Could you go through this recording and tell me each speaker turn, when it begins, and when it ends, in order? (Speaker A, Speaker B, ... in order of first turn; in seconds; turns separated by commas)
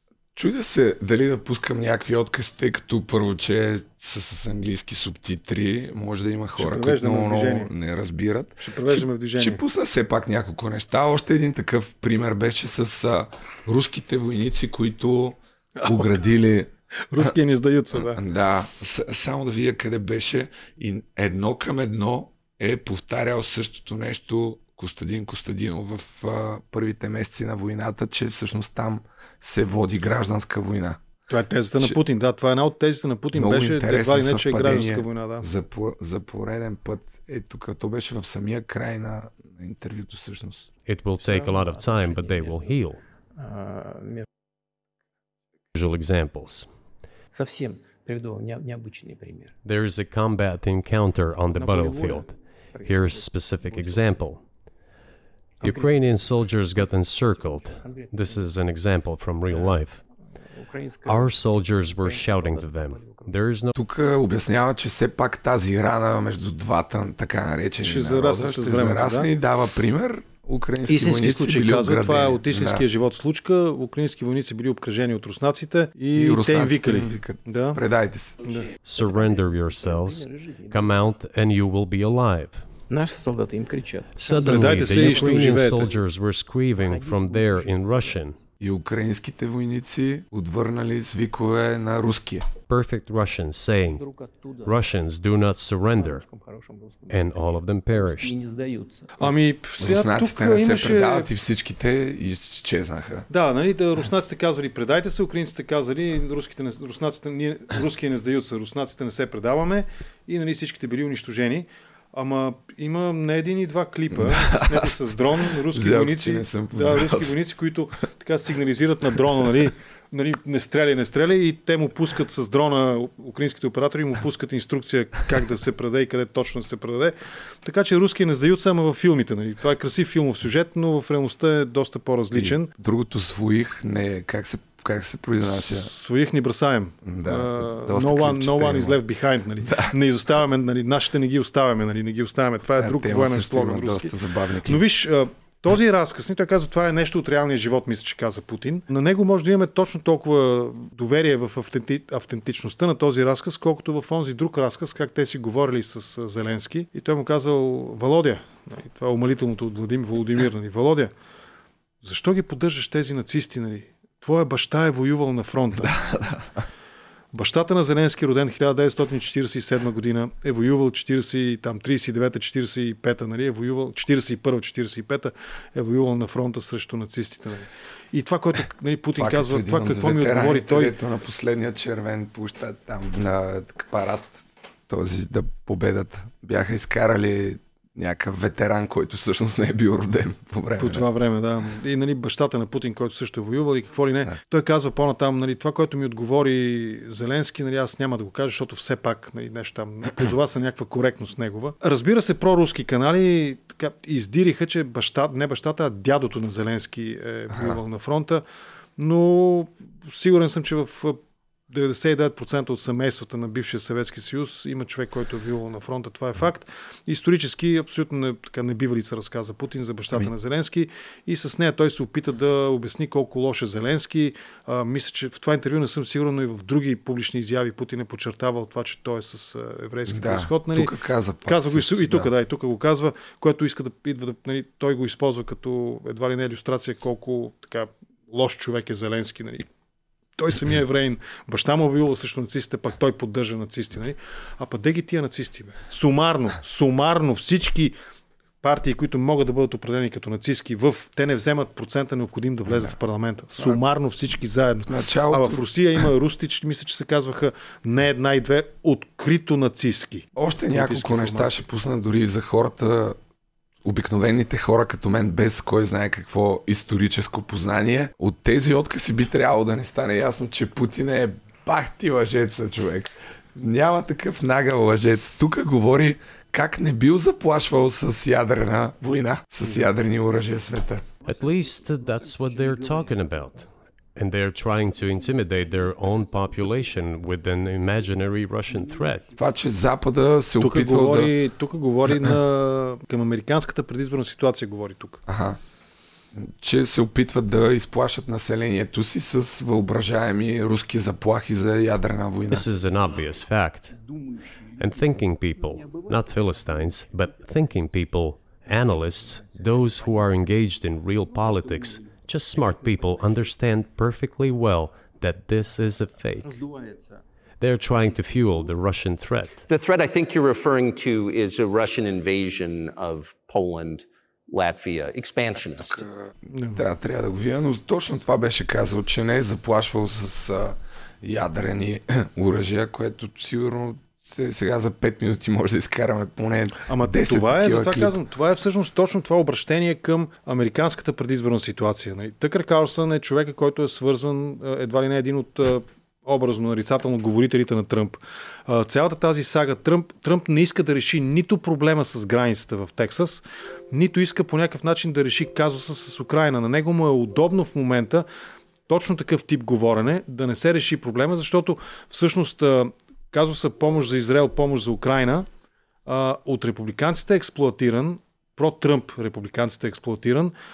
Speaker A: 0.3-16.7, Speaker B: 6.6-7.7, Speaker B: 8.6-9.6, Speaker B: 15.8-16.2, Speaker B: 17.1-18.2, Speaker A: 18.0-31.0, Speaker B: 31.3-35.5, Speaker A: 33.4-40.7, Speaker C: 40.9-43.0, Speaker D: 41.2-44.2, Speaker C: 45.8-46.7, Speaker D: 47.3-49.6, Speaker C: 49.6-52.3, Speaker D: 51.5-54.4, Speaker C: 52.9-54.4, Speaker D: 55.6-58.5, Speaker C: 55.7-60.0, Speaker D: 59.5-63.4, Speaker C: 61.1-63.7, Speaker A: 63.8-72.8, Speaker B: 67.8-69.3, Speaker B: 70.9-77.8, Speaker A: 76.2-78.4, Speaker C: 78.8-82.6, Speaker D: 79.0-81.2, Speaker D: 82.9-85.6, Speaker C: 84.2-88.3, Speaker B: 84.3-85.9, Speaker D: 86.7-88.2, Speaker A: 88.6-92.5, Speaker C: 92.7-94.0, Speaker D: 93.8-95.0, Speaker C: 94.7-96.2, Speaker D: 96.0-99.1, Speaker C: 97.1-98.4, Speaker B: 99.2-101.3, Speaker A: 99.8-103.3, Speaker B: 103.3-132.7, Speaker A: 114.1-117.3, Speaker A: 132.3-135.9, Speaker B: 135.4-144.1, Speaker A: 137.0-139.0, Speaker A: 139.7-139.9, Speaker A: 142.8-144.8, Speaker B: 144.7-161.1, Speaker B: 162.0-165.9, Speaker A: 165.8-166.6, Speaker B: 167.3-180.9, Speaker A: 179.2-191.0, Speaker B: 190.8-208.4, Speaker A: 207.5-207.8, Speaker B: 209.0-211.2, Speaker B: 211.7-230.9, Speaker A: 230.1-232.3, Speaker B: 231.5-239.7, Speaker B: 240.4-247.9, Speaker B: 248.6-261.6, Speaker A: 252.7-252.9, Speaker A: 254.9-255.6, Speaker A: 260.4-263.2, Speaker A: 263.8-281.1, Speaker D: 281.2-283.6, Speaker C: 281.3-283.6, Speaker C: 284.2-289.2, Speaker D: 285.0-289.4, Speaker A: 289.4-291.3, Speaker B: 290.6-295.2, Speaker A: 295.3-295.6, Speaker A: 296.4-302.7, Speaker C: 302.5-303.9, Speaker D: 303.9-306.9, Speaker C: 304.8-316.6, Speaker D: 309.3-310.2, Speaker D: 311.2-313.4, Speaker D: 316.4-317.2, Speaker C: 317.6-319.6, Speaker D: 318.0-318.7, Speaker E: 319.6-326.1, Speaker A: 325.9-338.1, Speaker B: 326.6-326.8, Speaker B: 336.9-358.3, Speaker B: 358.9-365.5, Speaker B: 366.1-370.5